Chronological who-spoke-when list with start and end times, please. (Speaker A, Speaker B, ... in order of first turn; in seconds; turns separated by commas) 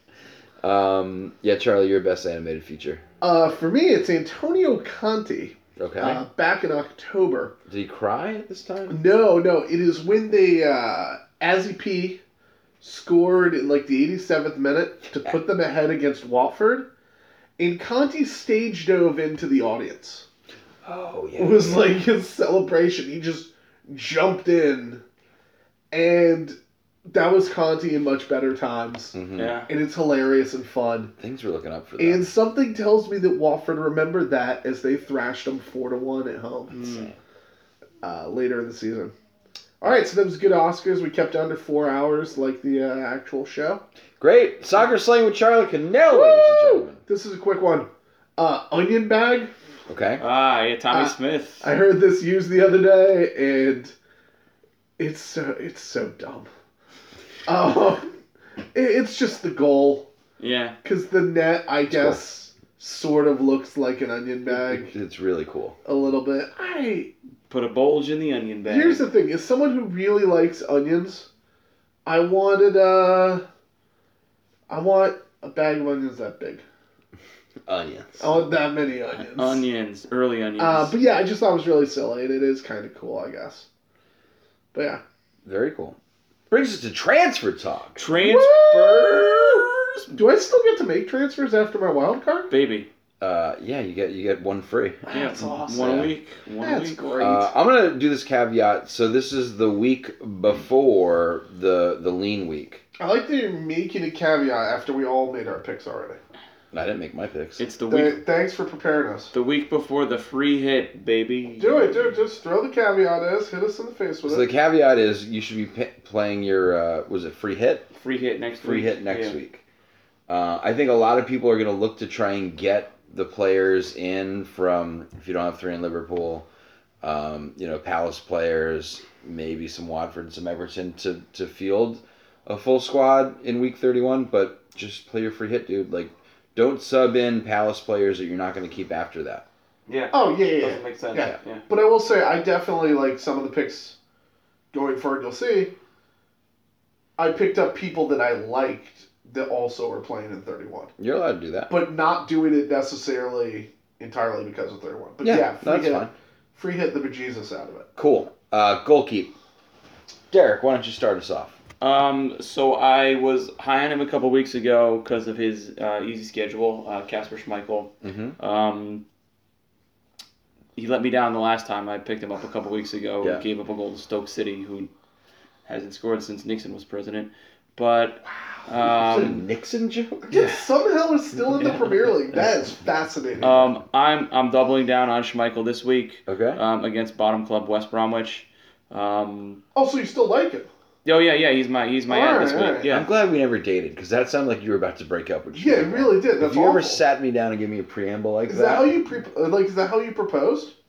Speaker A: 0.6-3.0, Speaker B: 3.2-7.5, Speaker A: 5.8-6.2, Speaker A: 7.7-9.0, Speaker B: 8.9-12.2, Speaker B: 12.8-16.9, Speaker B: 17.6-20.3, Speaker A: 20.8-22.0, Speaker B: 21.4-25.0, Speaker B: 25.9-31.1, Speaker A: 29.1-29.6, Speaker C: 29.4-29.7, Speaker A: 31.2-32.3, Speaker B: 32.0-36.8, Speaker C: 36.7-37.1, Speaker A: 36.7-37.2, Speaker B: 38.0-39.1, Speaker B: 39.8-43.8, Speaker A: 44.2-47.0, Speaker B: 46.1-49.5, Speaker A: 49.9-50.2, Speaker C: 50.2-51.7, Speaker B: 50.9-53.9, Speaker B: 55.0-56.5, Speaker B: 57.5-58.1, Speaker B: 58.7-60.1, Speaker C: 60.4-60.8, Speaker B: 60.8-64.9, Speaker A: 61.9-62.2, Speaker A: 64.5-65.8, Speaker B: 65.8-67.1, Speaker C: 67.5-69.1, Speaker B: 68.7-71.3, Speaker B: 72.0-73.5, Speaker B: 74.7-76.6, Speaker A: 77.7-78.3, Speaker B: 78.2-79.6, Speaker C: 79.2-81.0, Speaker B: 80.6-83.7, Speaker B: 84.7-85.0, Speaker A: 85.5-86.0, Speaker A: 86.5-88.0, Speaker C: 88.0-89.7, Speaker B: 88.2-92.5, Speaker C: 92.5-92.9, Speaker A: 93.2-95.0, Speaker B: 95.1-96.1, Speaker C: 95.1-97.0, Speaker A: 95.8-96.1, Speaker B: 96.6-97.5, Speaker A: 97.2-102.8, Speaker B: 103.0-106.2, Speaker A: 106.7-107.6, Speaker C: 107.6-108.2, Speaker B: 107.9-109.3, Speaker C: 109.3-112.0, Speaker B: 111.6-114.5, Speaker A: 114.3-117.9, Speaker C: 117.9-119.4, Speaker A: 118.6-119.6, Speaker A: 120.3-126.5, Speaker A: 127.0-139.4, Speaker C: 139.9-141.7, Speaker B: 140.1-144.0, Speaker B: 144.7-145.7, Speaker B: 147.2-150.9, Speaker A: 151.0-151.7, Speaker B: 151.7-157.9, Speaker A: 155.2-156.1, Speaker A: 158.0-159.3, Speaker A: 160.3-161.6, Speaker C: 161.8-169.1, Speaker A: 168.0-168.4, Speaker C: 170.8-174.9, Speaker C: 175.7-179.4, Speaker A: 178.8-180.3, Speaker B: 180.3-183.7, Speaker C: 181.6-182.1, Speaker C: 183.4-189.6, Speaker A: 186.3-186.6, Speaker B: 189.8-190.7, Speaker C: 191.1-193.1, Speaker B: 192.1-192.9, Speaker A: 192.9-198.9, Speaker B: 195.5-197.0, Speaker B: 198.5-200.7